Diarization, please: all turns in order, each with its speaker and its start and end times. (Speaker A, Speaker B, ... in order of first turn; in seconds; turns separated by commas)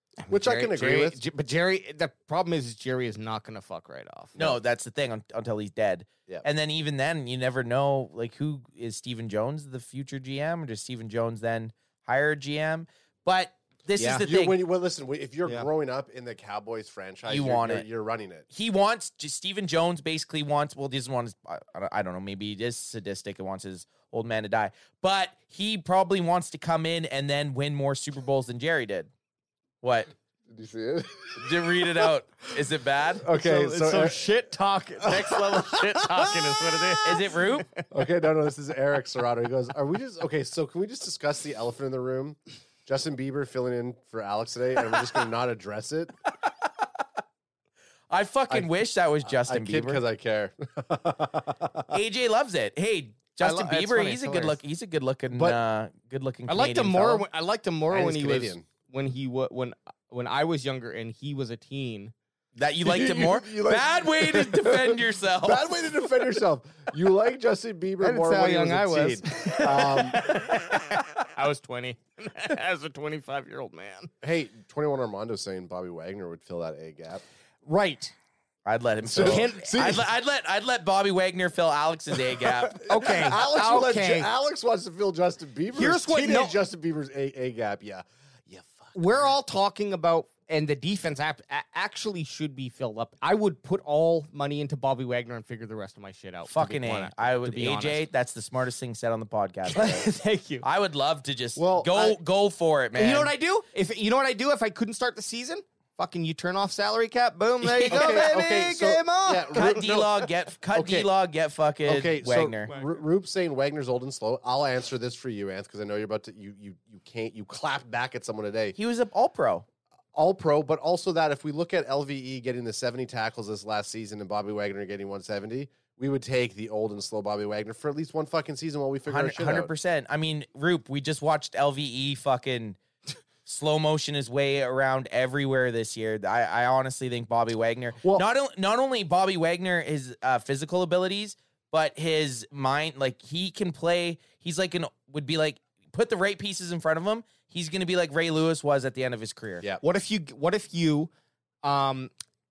Speaker A: 0.2-4.5, Speaker B: 0.3-1.2, Speaker C: 4.4-14.6, Speaker A: 14.0-14.2, Speaker B: 14.2-18.5, Speaker C: 17.3-17.9, Speaker C: 18.5-29.1, Speaker C: 29.8-30.1, Speaker B: 30.5-32.1, Speaker C: 31.4-33.3, Speaker B: 33.2-34.2, Speaker A: 33.4-37.8, Speaker B: 35.0-37.0, Speaker C: 37.0-37.7, Speaker B: 37.9-46.1, Speaker C: 48.1-50.0, Speaker B: 49.2-51.9, Speaker C: 51.9-57.2, Speaker A: 53.4-54.6, Speaker B: 55.3-55.6, Speaker A: 56.5-62.1, Speaker B: 57.9-58.7, Speaker C: 62.6-65.8, Speaker B: 62.8-70.5, Speaker A: 68.0-74.1, Speaker B: 74.2-77.2, Speaker A: 77.6-78.1, Speaker C: 78.6-83.5, Speaker B: 79.1-80.0, Speaker A: 79.1-79.9, Speaker B: 82.7-89.3, Speaker A: 82.9-84.3, Speaker A: 85.7-86.6, Speaker A: 89.0-98.0, Speaker C: 96.5-100.1, Speaker A: 99.7-100.6, Speaker C: 100.6-103.3, Speaker B: 101.6-102.2, Speaker A: 103.0-109.7, Speaker C: 107.6-108.3, Speaker B: 107.9-111.1, Speaker C: 109.5-112.7, Speaker B: 111.8-118.8, Speaker C: 118.7-119.7, Speaker B: 120.1-129.7, Speaker C: 129.1-132.8, Speaker C: 133.4-149.6, Speaker A: 149.8-151.1, Speaker A: 151.6-152.1